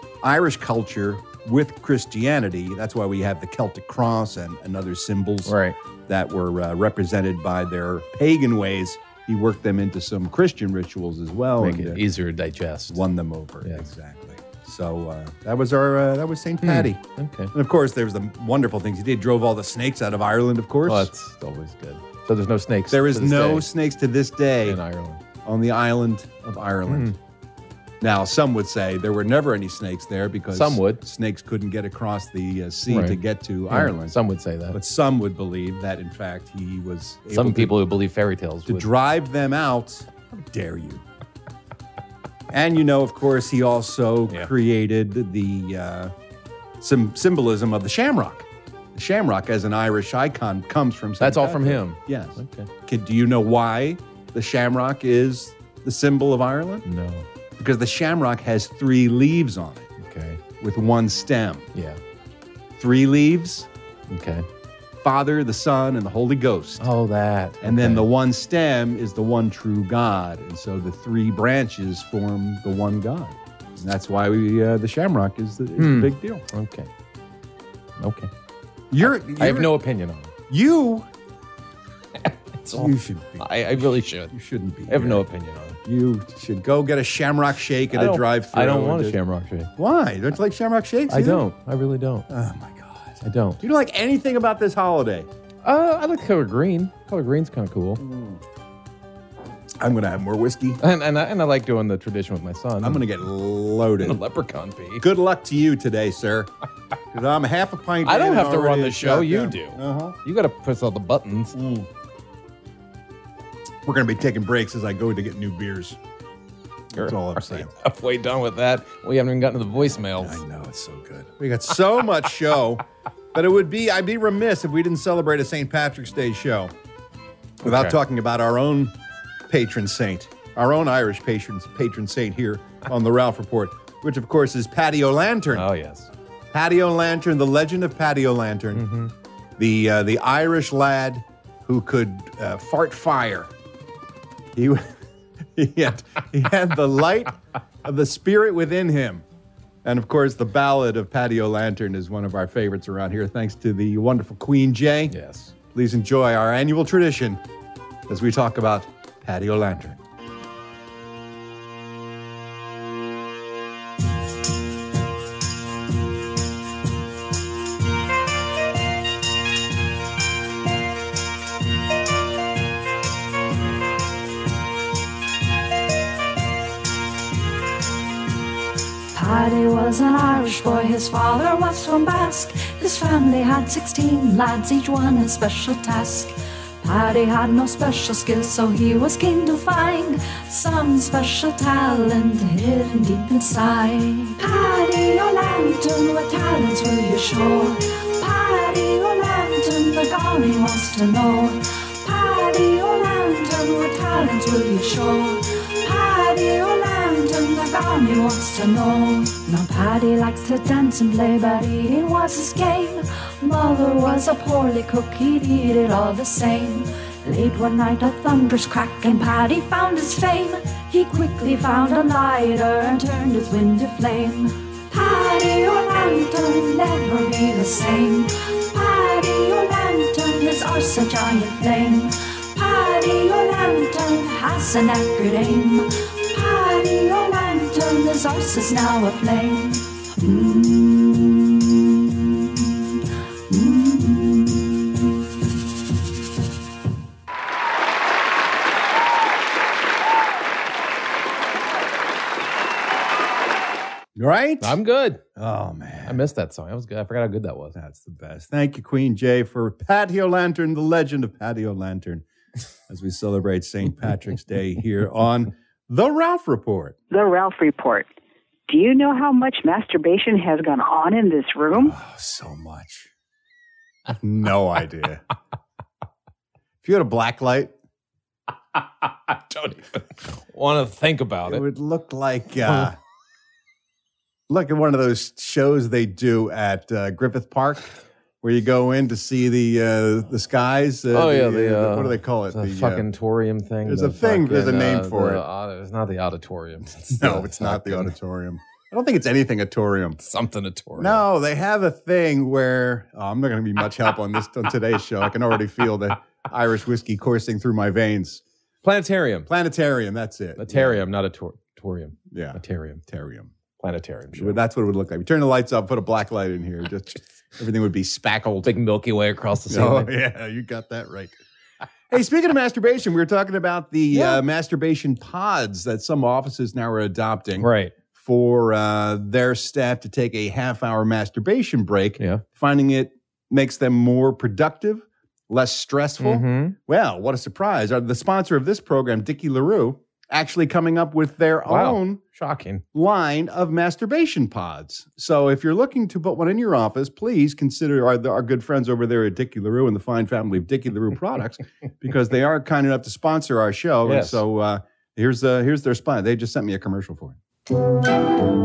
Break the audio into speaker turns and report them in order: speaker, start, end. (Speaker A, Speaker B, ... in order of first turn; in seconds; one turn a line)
Speaker A: 0.2-5.5
Speaker B: 5.4-5.8
Speaker A: 6.1-12.0
Speaker B: 11.6-13.0
Speaker A: 12.9-17.0
Speaker B: 13.6-13.9
Speaker B: 16.6-17.5
Speaker A: 17.5-21.1
Speaker B: 20.8-23.7
Speaker A: 22.9-24.8
Speaker B: 24.6-25.2
Speaker A: 25.4-27.1
Speaker B: 26.9-27.1
Speaker A: 28.0-34.2
Speaker B: 30.5-31.0
Speaker B: 32.9-34.8
Speaker A: 34.7-37.8
Speaker B: 37.3-38.9
Speaker A: 38.7-41.0
Speaker A: 42.5-46.1
Speaker A: 46.8-56.8
Speaker B: 51.2-52.7
Speaker B: 56.8-57.3
Speaker A: 57.6-59.9
Speaker B: 60.0-60.4
Speaker A: 60.6-61.7
Speaker B: 61.7-62.0
Speaker A: 62.8-63.7
Speaker B: 64.1-64.5
Speaker A: 65.0-66.9
Speaker B: 66.8-68.0
Speaker A: 67.6-76.4
Speaker B: 75.8-76.9
Speaker B: 78.0-78.3
Speaker A: 78.9-79.7
Speaker B: 79.0-80.3
Speaker A: 80.5-81.1
Speaker B: 82.2-84.3
Speaker A: 82.7-85.2
Speaker B: 84.9-85.8
Speaker A: 85.8-89.2
Speaker B: 87.9-89.7
Speaker A: 89.8-91.5
Speaker B: 91.1-92.2
Speaker A: 92.3-95.3
Speaker B: 93.2-93.6
Speaker B: 95.6-98.0
Speaker A: 98.0-98.4
Speaker A: 99.8-100.8
Speaker B: 100.8-103.0
Speaker A: 102.8-104.2
Speaker B: 104.0-105.0
Speaker A: 105.0-106.5
Speaker A: 107.1-110.2
Speaker B: 108.0-111.5
Speaker A: 111.5-111.9
Speaker A: 113.8-116.0
Speaker A: 116.9-117.7
Speaker B: 117.0-120.4
Speaker A: 120.0-122.8
Speaker A: 123.3-126.7
Speaker B: 127.6-128.0
Speaker A: 127.6-128.9
Speaker A: 129.5-135.7
Speaker B: 135.5-136.1
Speaker A: 136.5-138.9
Speaker B: 138.7-139.1
Speaker A: 139.6-143.5
Speaker A: 144.5-144.9
Speaker A: 145.5-149.2
Speaker A: 149.8-155.1
Speaker B: 155.1-155.5
Speaker A: 155.7-157.4
Speaker A: 158.1-160.0
Speaker C: 179.1-242.9
Speaker C: 243.5-244.7
Speaker A: 254.2-254.8
Speaker B: 254.6-255.2
Speaker A: 255.3-256.2
Speaker B: 256.0-257.8
Speaker A: 257.7-262.2
Speaker A: 262.9-266.9
Speaker D: 267.1-268.1
Speaker D: 268.7-271.9
Speaker A: 271.8-273.1
Speaker A: 274.1-275.2
Speaker A: 276.8-277.7
Speaker B: 279.0-281.6
Speaker A: 281.4-282.9
Speaker A: 284.5-293.1
Speaker B: 291.1-298.1
Speaker A: 293.8-295.4
Speaker A: 297.2-300.2
Speaker B: 300.2-301.2
Speaker A: 301.0-308.4
Speaker B: 308.8-309.5
Speaker A: 309.5-311.0
Speaker B: 310.6-313.0
Speaker A: 312.3-313.5
Speaker B: 313.8-314.6
Speaker A: 314.3-318.7
Speaker B: 318.6-320.1
Speaker A: 319.7-321.3
Speaker A: 322.1-342.2
Speaker B: 324.1-324.4
Speaker B: 327.6-327.9
Speaker B: 336.2-336.8
Speaker B: 341.7-342.8
Speaker A: 342.9-357.4
Speaker B: 354.0-354.4